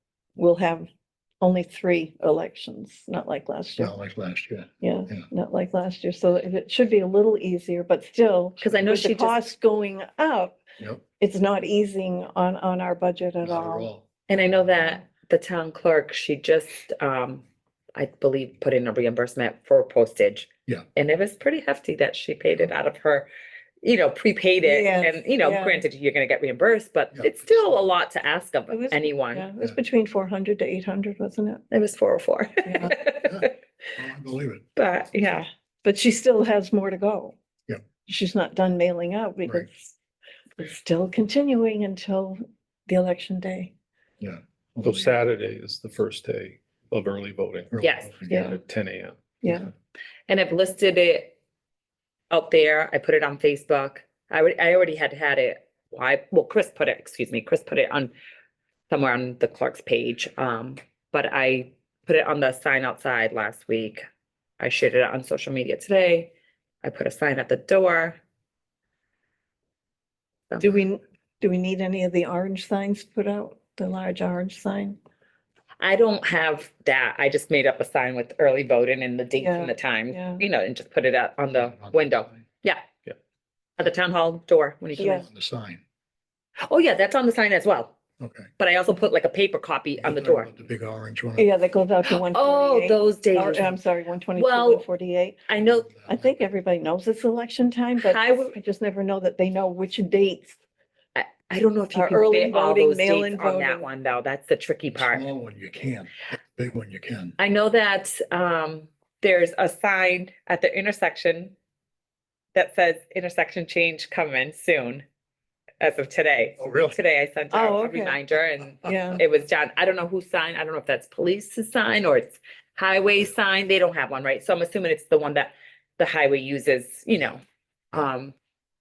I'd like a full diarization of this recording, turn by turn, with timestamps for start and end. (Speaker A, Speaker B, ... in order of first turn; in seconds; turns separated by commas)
Speaker A: 0.3-0.9, Speaker A: 1.4-3.9, Speaker B: 3.8-5.2, Speaker A: 4.8-10.6, Speaker C: 8.6-9.3, Speaker B: 10.8-11.0, Speaker A: 11.2-13.9, Speaker B: 13.4-14.1, Speaker C: 14.3-23.3, Speaker C: 23.8-29.5, Speaker A: 24.6-25.8, Speaker B: 27.1-27.9, Speaker A: 28.7-31.6, Speaker C: 31.7-33.5, Speaker A: 32.6-32.9, Speaker B: 33.1-34.7, Speaker C: 34.8-35.5, Speaker A: 35.8-37.4, Speaker A: 38.0-39.9, Speaker A: 40.6-43.7, Speaker B: 44.2-45.1, Speaker D: 44.8-49.6, Speaker B: 47.7-48.5, Speaker C: 47.8-48.1, Speaker A: 48.3-48.6, Speaker A: 49.4-49.7, Speaker C: 50.3-51.3, Speaker C: 52.3-58.1, Speaker C: 58.9-64.0, Speaker C: 64.6-66.3, Speaker C: 66.8-68.2, Speaker A: 70.6-75.0, Speaker C: 75.8-82.8, Speaker A: 79.4-80.4, Speaker B: 81.5-82.4, Speaker C: 83.8-85.2, Speaker A: 85.0-85.3, Speaker B: 85.0-85.8, Speaker C: 86.6-88.0, Speaker B: 88.2-88.5, Speaker C: 88.6-90.5, Speaker B: 90.0-91.5, Speaker A: 91.4-95.4, Speaker C: 92.1-93.8, Speaker C: 94.4-94.8, Speaker C: 95.5-95.9, Speaker B: 95.6-96.4, Speaker A: 96.0-100.6, Speaker C: 98.0-98.5, Speaker C: 101.1-105.3, Speaker A: 101.9-103.9, Speaker B: 104.9-107.4, Speaker C: 107.4-111.5, Speaker C: 112.5-115.0, Speaker C: 115.8-128.3, Speaker B: 116.6-117.0, Speaker A: 117.5-118.2, Speaker A: 118.8-119.2